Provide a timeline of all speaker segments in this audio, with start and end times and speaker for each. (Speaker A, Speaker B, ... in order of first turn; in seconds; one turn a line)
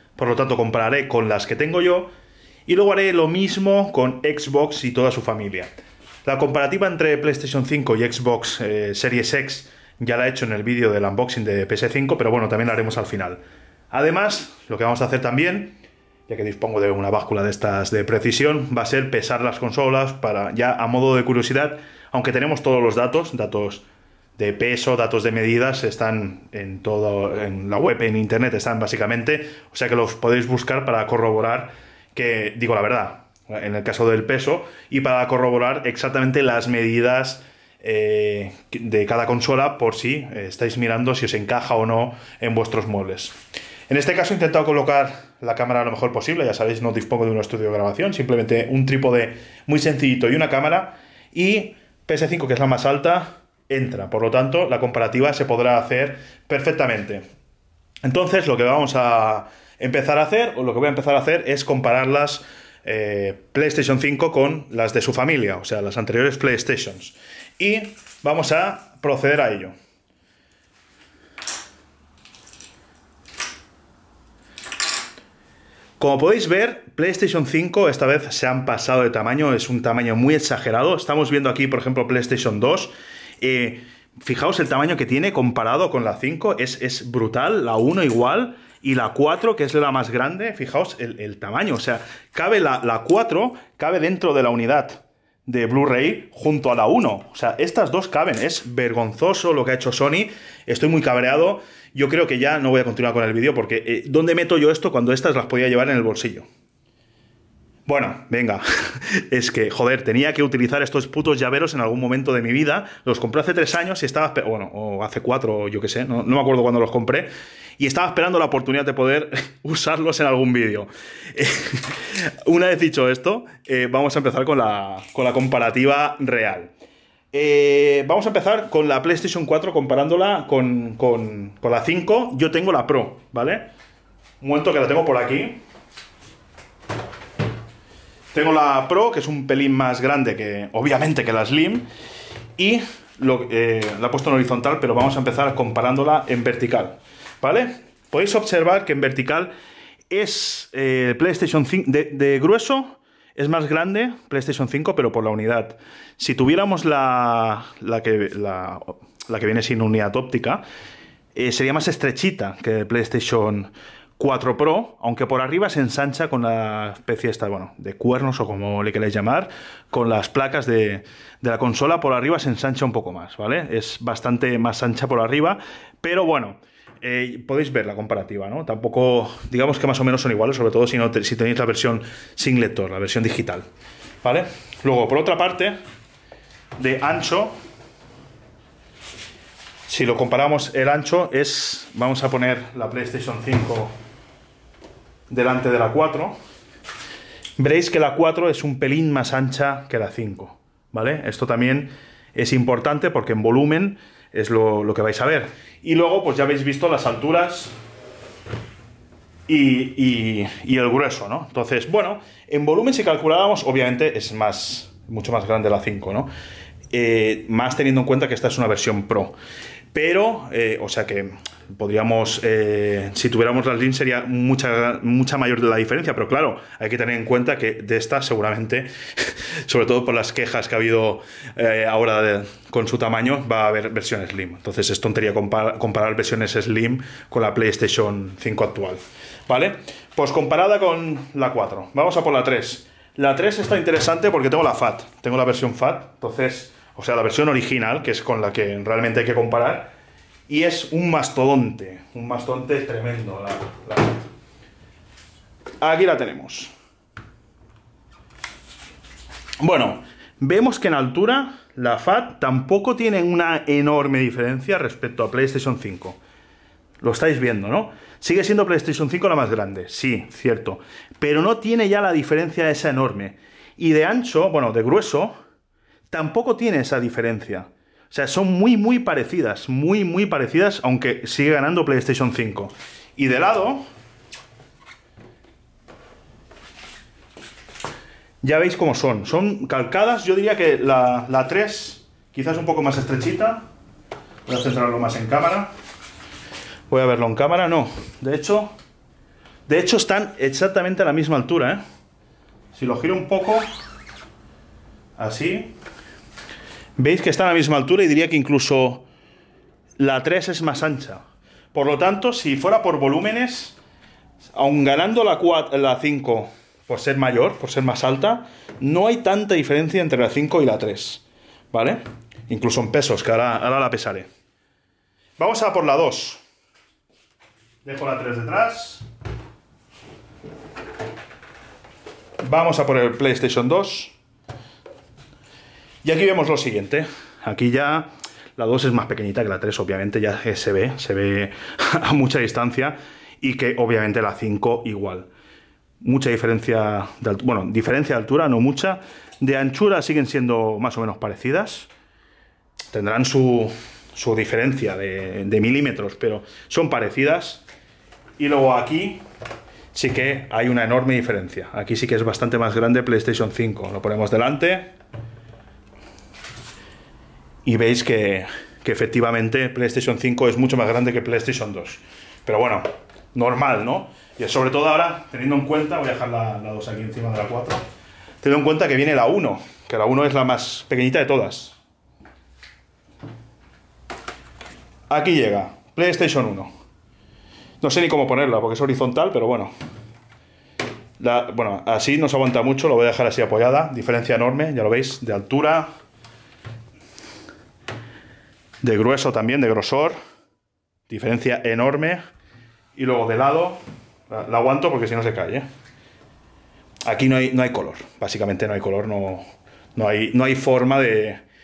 Speaker A: 0.2-2.1
Speaker A: 2.6-5.7
Speaker A: 6.2-15.8
Speaker A: 16.3-23.8
Speaker A: 24.4-43.4
Speaker A: 43.9-57.2
Speaker A: 58.0-69.7
Speaker A: 76.0-106.5
Speaker A: 107.9-126.7
Speaker A: 127.3-133.6
Speaker A: 134.4-135.6
Speaker A: 138.3-141.8
Speaker A: 142.6-149.5
Speaker A: 150.1-160.6
Speaker A: 161.3-183.7
Speaker A: 184.2-185.7
Speaker A: 186.8-187.5
Speaker A: 189.9-193.9
Speaker A: 195.3-196.3
Speaker A: 197.6-207.7
Speaker A: 209.5-216.3
Speaker A: 216.9-219.3
Speaker A: 219.9-249.9
Speaker A: 250.5-254.2
Speaker A: 255.8-256.7
Speaker A: 259.6-266.2
Speaker A: 267.0-275.4
Speaker A: 276.1-283.8
Speaker A: 288.4-293.6
Speaker A: 294.4-295.7
Speaker A: 296.9-298.7
Speaker A: 299.7-301.8
Speaker A: 302.7-303.6
Speaker A: 305.2-305.7
Speaker A: 307.0-309.1
Speaker A: 310.0-311.2
Speaker A: 311.7-313.8
Speaker A: 314.5-324.3
Speaker A: 325.4-326.4
Speaker A: 327.8-329.0
Speaker A: 332.4-334.1
Speaker A: 336.0-345.3
Speaker A: 346.0-351.9
Speaker A: 352.9-357.6
Speaker A: 358.4-359.2
Speaker A: 359.9-364.9
Speaker A: 367.6-377.8
Speaker A: 378.4-381.8
Speaker A: 385.1-386.7
Speaker A: 387.8-389.7
Speaker A: 391.2-395.9
Speaker A: 398.8-400.1
Speaker A: 401.1-402.2
Speaker A: 402.9-405.6
Speaker A: 407.0-409.4
Speaker A: 409.9-411.4